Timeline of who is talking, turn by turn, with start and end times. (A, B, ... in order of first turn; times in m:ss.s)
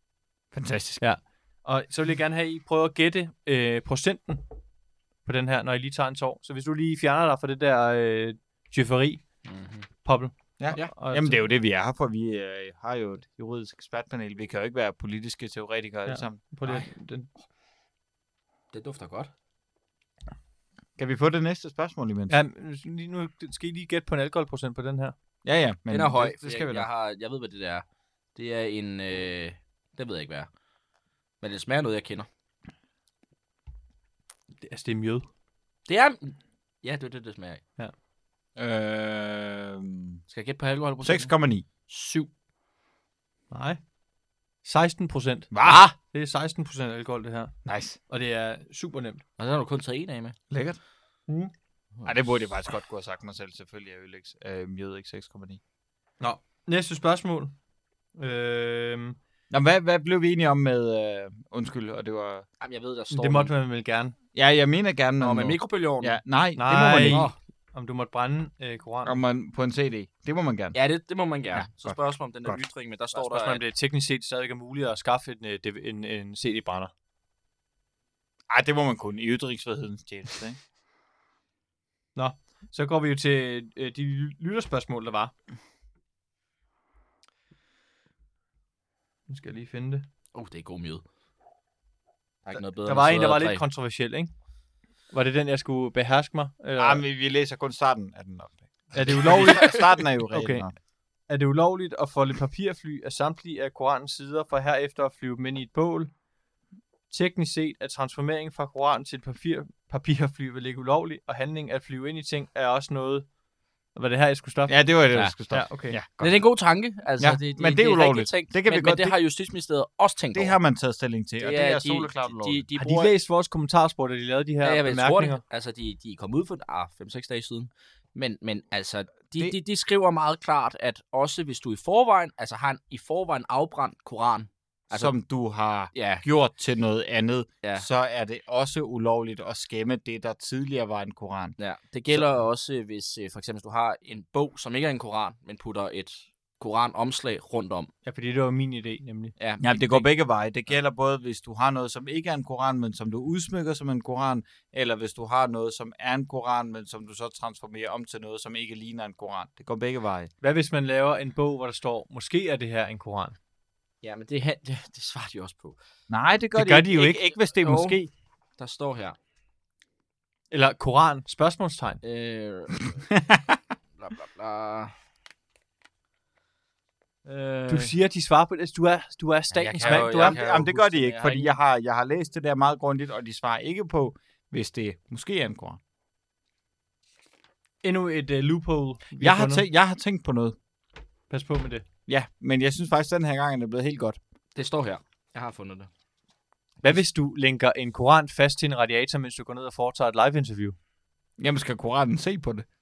0:00.5-0:01.0 A
0:01.0-0:04.4 B
0:05.2-0:09.2 B
0:09.4-0:09.9 C
0:10.0-0:11.4 B
0:10.6-0:16.8 A
0:16.0-0:17.3 B
0:18.7-0:19.3 C
0:21.0-0:22.4 A
0:22.3-0:25.1 B
0:25.4-0:26.9 A
0:25.9-0:30.5 C
0:31.4-0:32.3 C
0:34.6-0:35.3 B
0:35.9-0:37.6 C
0:38.6-0:40.2 A
0:40.3-0:42.3 C
0:41.0-0:41.6 A
0:43.5-0:43.8 B
0:44.6-0:47.6 B
0:45.5-0:45.8 A
0:45.6-0:45.9 C
0:47.6-0:48.0 A
0:48.1-0:49.2 B
0:49.4-0:50.4 C
0:50.5-0:50.8 A
0:52.0-0:55.6 A
0:56.2-0:57.6 B
0:58.2-0:59.2 B
0:59.5-1:02.4 A
1:02.6-1:03.5 C
1:03.1-1:04.1 B
1:04.3-1:07.3 A
1:05.2-1:06.2 C
1:06.6-1:09.2 B
1:07.0-1:07.4 C
1:09.0-1:10.8 A
1:10.7-1:13.6 C
1:11.6-1:12.6 A
1:13.1-1:16.9 B
1:18.5-1:20.6 A
1:22.2-1:25.3 B
1:29.3-1:30.1 B
1:30.3-1:31.0 C
1:32.4-1:33.6 C
1:32.5-1:34.3 B
1:35.1-1:37.0 B
1:36.8-1:40.7 A
1:38.9-1:40.6 B
1:39.3-1:39.8 C
1:41.3-1:46.1 B
1:47.1-1:53.3 B
1:53.9-1:54.9 B
1:54.7-1:56.4 A
1:55.5-1:56.0 B
1:56.1-2:00.6 C
1:57.2-1:59.2 A
2:00.3-2:02.7 A
2:01.4-2:03.1 C
2:02.8-2:05.4 B
2:04.6-2:15.1 C
2:14.9-2:21.6 A
2:15.9-2:16.2 C
2:21.6-2:27.9 C
2:28.0-2:29.4 B
2:29.4-2:30.0 C
2:29.6-2:40.3 A
2:40.4-2:43.4 B
2:44.0-2:45.8 C
2:46.1-2:48.1 A
2:46.8-2:48.0 C
2:48.6-2:49.2 C
2:50.5-2:52.0 B
2:52.0-2:53.0 C
2:53.1-2:53.6 A
2:54.0-2:55.0 C
2:57.2-2:58.0 C
2:57.7-3:00.4 B
2:59.5-3:01.5 C
2:59.6-3:05.8 A
3:07.8-3:09.6 B
3:09.2-3:10.6 A
3:11.3-3:11.8 B
3:12.1-3:14.2 A
3:14.6-3:15.9 C
3:16.8-3:20.8 B
3:21.4-3:22.7 A